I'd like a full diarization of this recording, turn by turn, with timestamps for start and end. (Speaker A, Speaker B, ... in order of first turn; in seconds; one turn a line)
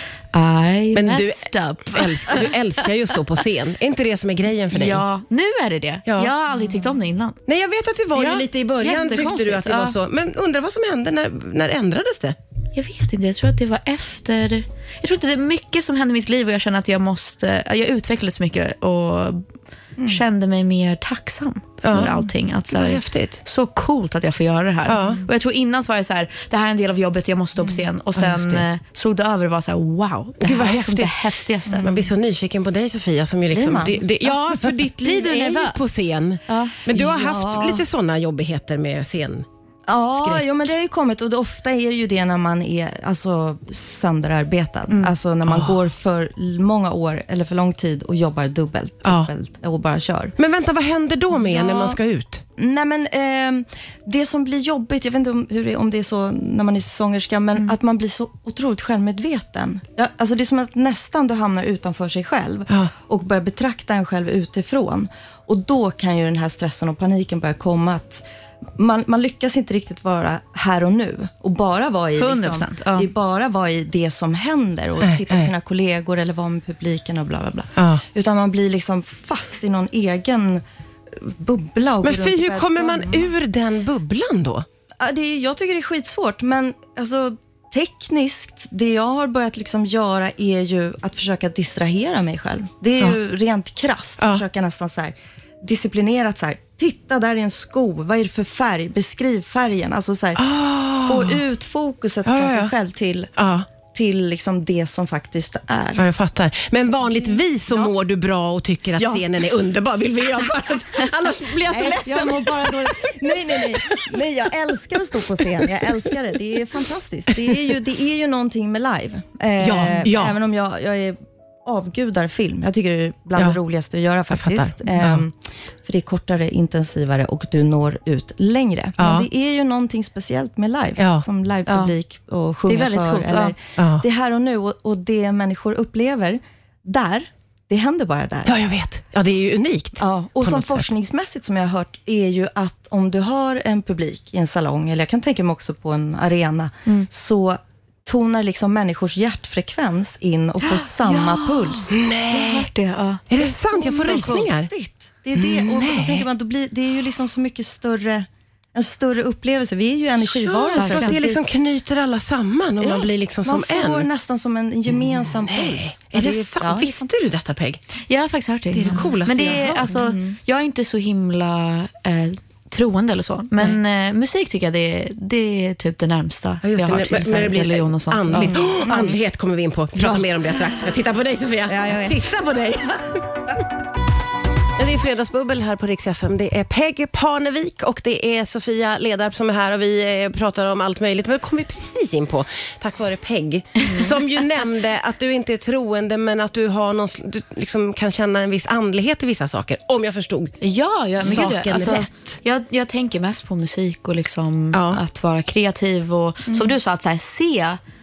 Speaker A: 0.3-2.9
Speaker B: 0.9-5.0
Speaker A: 4.7-7.4
Speaker B: 6.1-6.3
Speaker B: 7.5-12.4
Speaker A: 8.2-10.0
Speaker A: 12.7-19.4
Speaker C: 20.0-20.2
Speaker A: 20.1-31.9
Speaker B: 21.8-22.1
Speaker B: 22.7-23.4
Speaker B: 24.9-25.2
Speaker B: 28.1-28.6
Speaker B: 30.4-31.2
Speaker C: 31.7-32.1
Speaker B: 31.8-39.5
Speaker C: 33.5-34.1
Speaker A: 35.0-36.7
Speaker C: 36.9-37.9
Speaker C: 39.9-50.3
Speaker B: 40.2-40.6
Speaker B: 45.5-45.8
Speaker B: 49.0-49.3
Speaker B: 50.4-52.4
Speaker C: 51.3-52.0
Speaker C: 52.6-68.2
Speaker C: 68.8-83.3
Speaker A: 72.2-73.1
Speaker B: 75.0-75.5
Speaker B: 77.8-78.0
Speaker B: 82.0-84.7
Speaker C: 85.0-100.4
Speaker B: 94.2-94.4
Speaker B: 100.4-101.4
Speaker C: 101.0-103.3
Speaker B: 102.3-102.7
Speaker B: 103.4-103.7
Speaker C: 103.9-106.1
Speaker B: 106.0-114.2
Speaker C: 107.2-107.9
Speaker C: 109.0-109.2
Speaker C: 111.7-138.6
Speaker B: 115.4-116.1
Speaker B: 117.3-117.8
Speaker B: 119.6-120.3
Speaker B: 124.3-125.2
Speaker B: 129.0-129.3
Speaker B: 131.0-131.2
Speaker A: 131.7-131.9
Speaker A: 132.7-133.6
Speaker B: 133.8-134.0
Speaker B: 138.5-140.9
Speaker C: 140.0-152.0
Speaker A: 150.6-154.5
Speaker B: 151.9-152.7
Speaker B: 153.3-154.7
Speaker C: 153.7-161.2
Speaker B: 155.3-156.3
Speaker B: 160.3-164.1
Speaker A: 160.8-161.4
Speaker C: 162.8-167.1
Speaker B: 165.0-167.8
Speaker A: 168.1-178.6
Speaker B: 168.7-169.9
Speaker C: 169.7-170.4
Speaker B: 176.6-183.3
Speaker C: 178.3-179.2
Speaker C: 180.0-180.5
Speaker C: 181.7-182.3
Speaker B: 184.8-200.5
Speaker A: 193.8-194.2
Speaker A: 200.6-207.8
Speaker B: 201.2-202.1
Speaker C: 201.2-201.6
Speaker B: 204.7-205.0
Speaker C: 206.5-206.7